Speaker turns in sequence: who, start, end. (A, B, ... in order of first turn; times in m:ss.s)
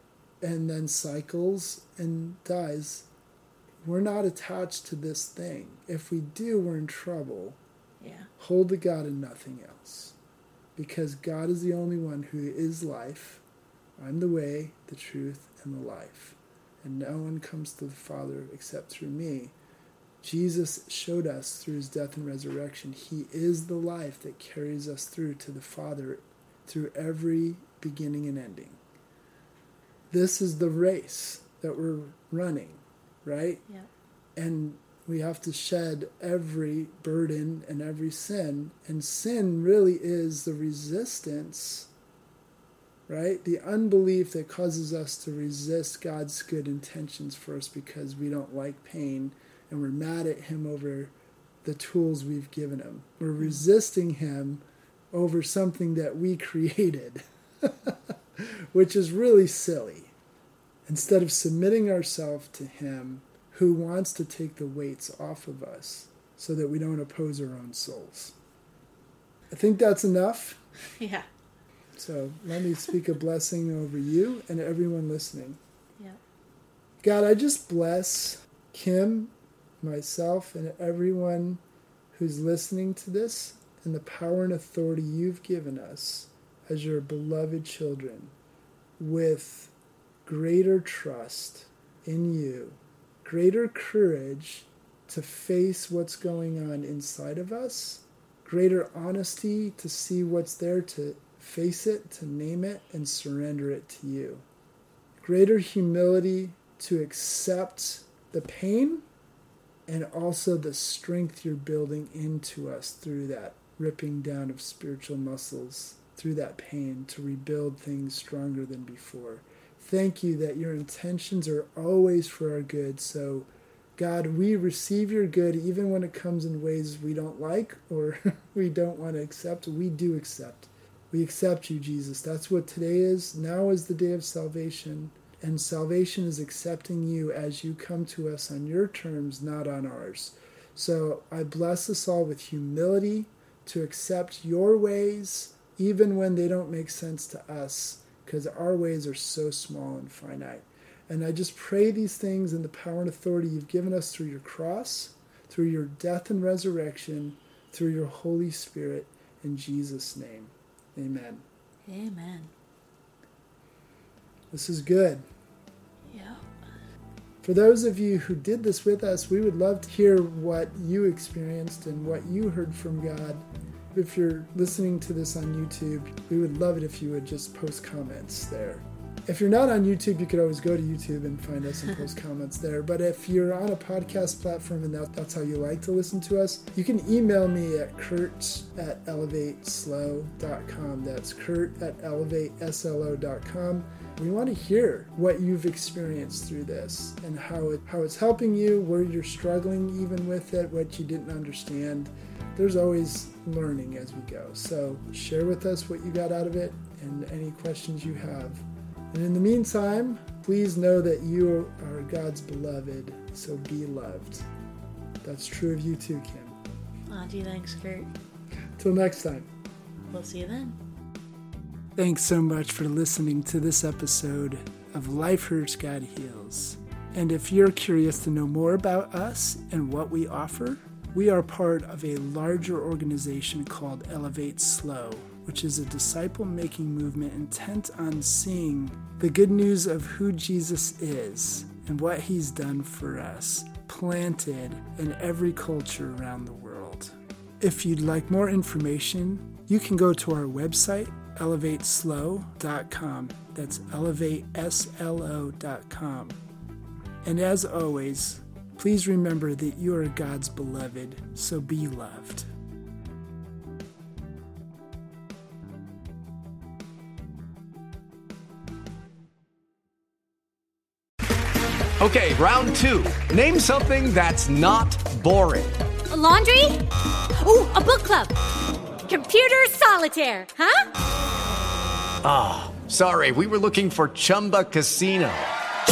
0:00.4-0:03.1 A
0:03.8-0:07.6 A
0:08.0-0:08.3 B
0:08.4-0:10.2 A
0:10.8-0:13.4 A
0:14.0-0:19.5 A
0:20.2-0:28.8 A
0:30.1-0:33.6 A
0:34.4-0:41.9 A
0:43.1-1:00.1 A
1:00.8-1:08.3 A
1:09.5-1:10.6 A
1:11.0-1:11.3 B
1:11.9-1:15.6 A
1:17.0-1:21.6 A
1:22.1-1:28.3 A
1:29.0-1:29.7 A
1:30.2-1:44.4 A
1:45.2-1:49.1 A
1:49.9-2:41.4 A
2:41.9-2:42.5 B
2:44.5-2:45.2 A
2:46.1-2:46.5 B
2:47.4-3:34.5 A
3:35.2-3:36.6 A
3:37.1-3:38.1 B
3:38.8-3:39.5 A
3:40.1-3:40.8 B
3:42.0-4:16.4 A
4:17.2-4:22.5 A
4:32.0-4:35.7 C
4:36.1-4:38.4 D
4:39.1-4:40.9 D
4:42.2-4:45.5 C